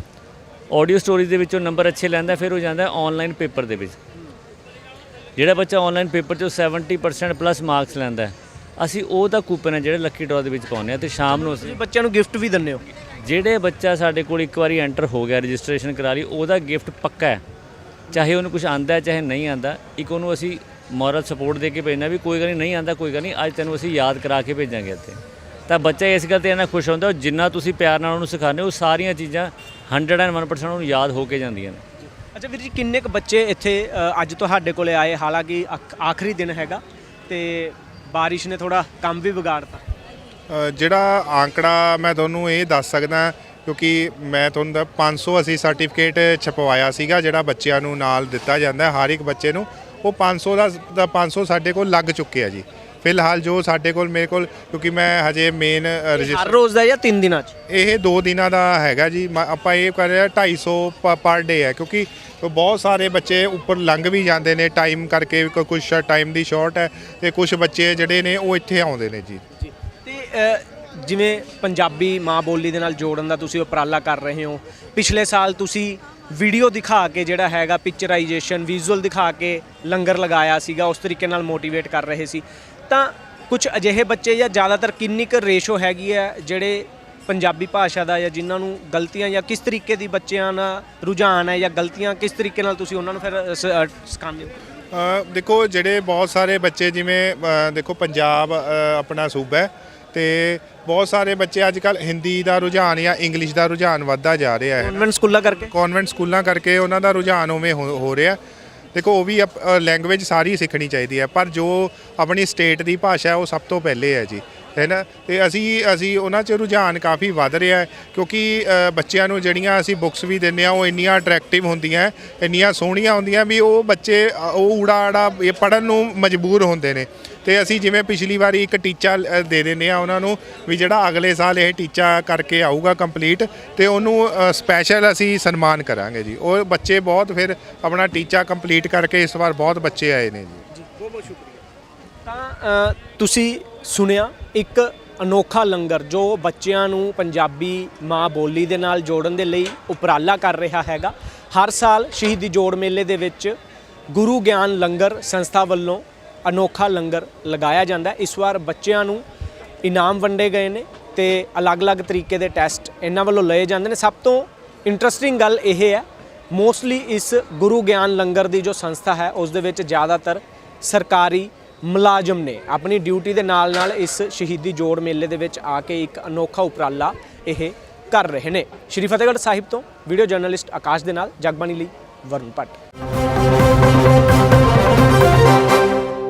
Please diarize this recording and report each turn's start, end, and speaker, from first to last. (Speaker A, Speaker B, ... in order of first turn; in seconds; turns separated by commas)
Speaker A: 0.7-4.0, Speaker A: 5.3-11.8, Speaker B: 11.3-12.8, Speaker A: 13.2-17.4, Speaker A: 18.1-31.8, Speaker B: 32.3-39.8, Speaker C: 40.5-56.5, Speaker B: 56.2-57.5, Speaker C: 57.7-69.4, Speaker B: 70.0-94.5, Speaker C: 94.9-105.0, Speaker B: 104.8-105.7, Speaker C: 105.7-108.4, Speaker C: 108.9-140.7, Speaker B: 140.8-141.5, Speaker B: 142.2-153.6, Speaker B: 154.1-159.2, Speaker B: 159.8-182.8